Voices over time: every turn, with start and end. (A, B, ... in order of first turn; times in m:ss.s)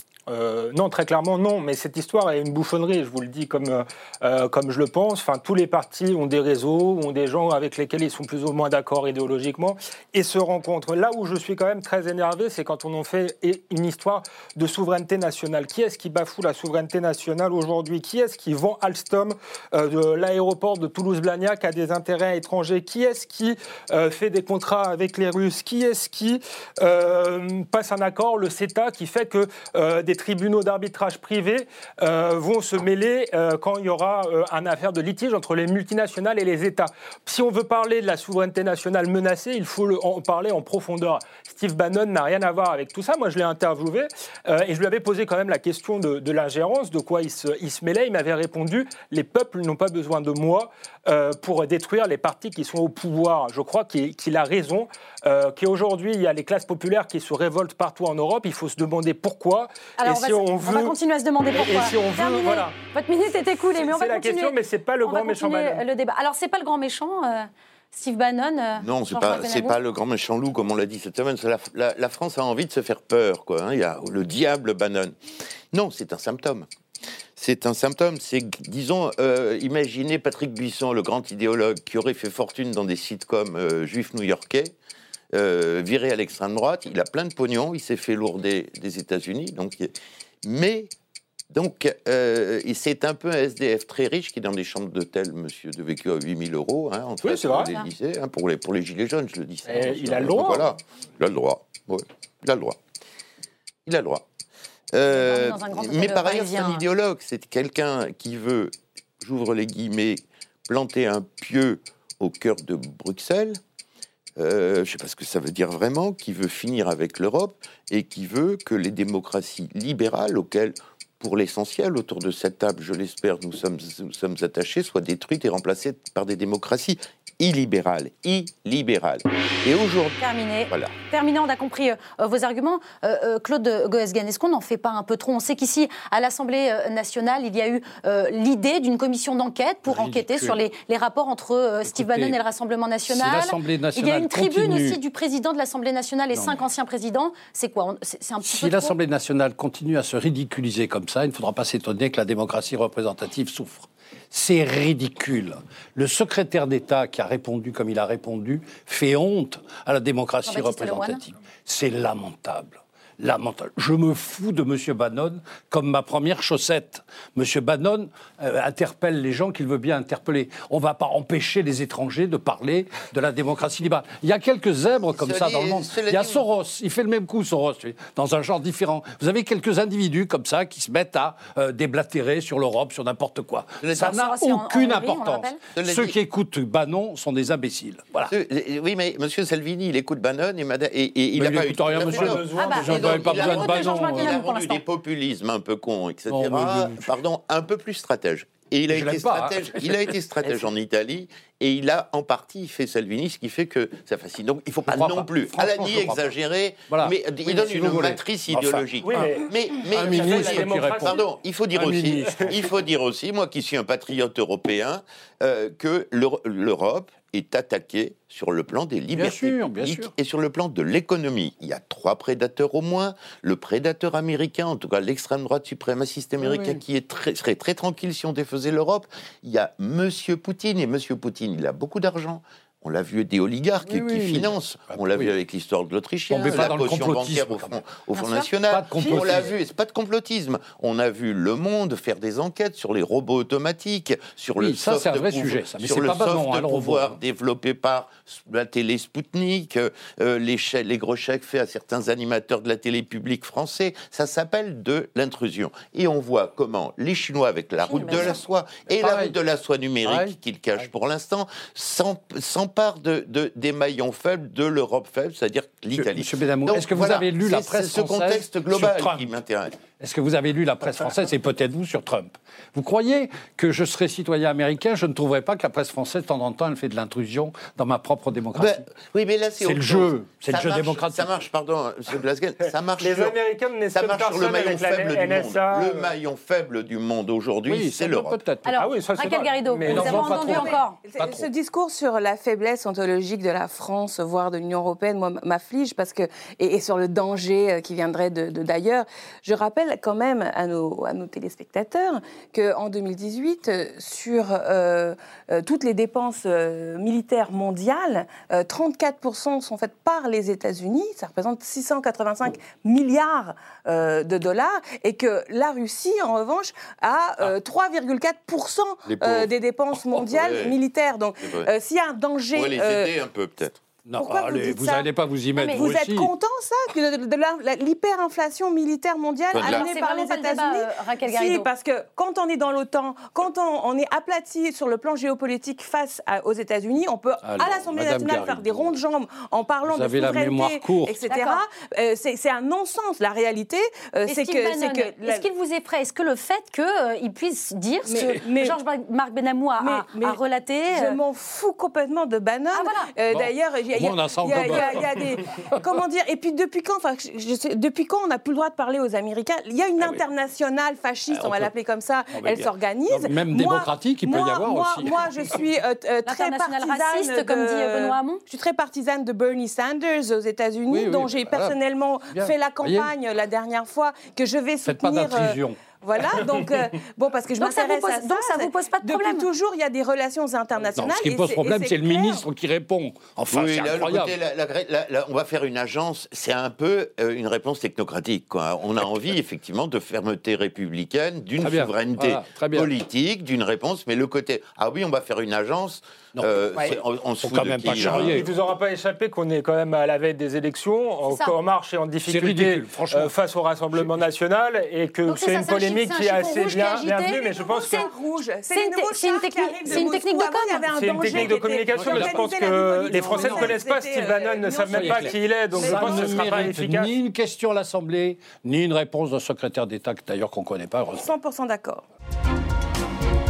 0:00.3-1:01.0 A
1:00.0-1:09.8 B
1:01.5-1:02.8 A
1:03.8-1:05.8 A
1:08.8-1:15.2 C
1:15.7-1:16.7 C
1:17.4-1:24.8 C
1:25.3-1:29.9 C
1:30.4-1:30.9 C
1:31.5-1:42.8 C
1:37.2-1:37.8 A
1:39.7-1:40.8 A
1:43.9-1:44.2 C
1:44.9-1:53.6 C
1:45.1-1:46.9 B
1:54.4-2:10.2 C
2:10.2-2:28.9 B
2:19.9-2:20.6 D
2:21.8-2:22.4 D
2:23.1-2:25.0 D
2:26.3-2:26.6 D
2:28.4-3:08.3 D
2:40.4-2:41.2 B
2:55.2-2:56.4 C
3:03.8-3:04.1 C
3:03.9-3:05.6 B
3:05.8-3:06.1 C
3:08.3-4:29.7 C
3:11.4-3:14.4 D
3:12.6-3:14.8 B
3:16.3-3:17.1 D
3:18.9-3:20.7 D
3:24.9-3:26.3 D
3:26.9-3:29.2 D
3:29.0-3:31.2 A
3:29.9-3:31.2 D
3:31.8-3:32.5 D
3:39.2-3:40.1 D
3:46.5-3:46.8 D
3:53.8-3:55.3 D
3:56.3-3:57.8 D
3:58.1-3:58.5 B
3:58.7-3:59.5 D
4:04.6-4:07.2 D
4:17.8-4:18.4 B
4:19.0-4:19.4 D
4:20.0-4:20.4 D
4:26.0-4:29.3 D
4:29.9-4:38.9 D
4:38.6-4:43.4 C
4:39.6-4:41.3 D
4:43.0-4:46.1 A
4:43.9-4:48.4 C
4:47.7-4:48.8 D
4:48.7-4:51.0 B
4:48.8-4:50.5 A
4:49.8-4:51.5 D
4:50.4-5:23.2 E
5:19.1-5:20.8 C
5:21.4-5:21.7 C
5:22.5-5:23.8 C
5:24.0-5:26.3 D
5:24.2-5:45.5 E
5:25.6-5:25.8 B
5:29.5-5:29.9 C
5:29.6-5:31.7 B
5:37.4-5:39.0 D
5:39.8-5:41.2 D
5:41.3-5:41.6 B
5:44.3-5:51.2 B
5:48.0-5:48.8 E
5:49.8-5:50.4 E
5:50.9-6:22.5 E
5:52.7-5:53.1 B
5:53.3-5:55.7 D
6:02.3-6:05.5 D
6:06.2-6:08.4 B
6:10.9-6:11.8 D
6:12.3-6:13.1 D
6:14.8-6:15.8 D
6:17.6-6:19.5 B
6:20.9-6:24.4 D
6:23.5-6:38.5 C
6:31.6-6:32.9 D
6:36.4-6:38.5 D
6:38.3-6:48.0 A
6:41.3-6:41.5 B
6:42.2-6:43.3 D
6:45.3-6:48.1 B
6:47.6-6:56.4 E
6:48.7-6:51.4 B
6:50.9-6:57.1 A
6:52.0-6:52.4 D
6:53.2-6:53.7 D
6:54.9-7:01.3 D
7:01.2-7:02.0 E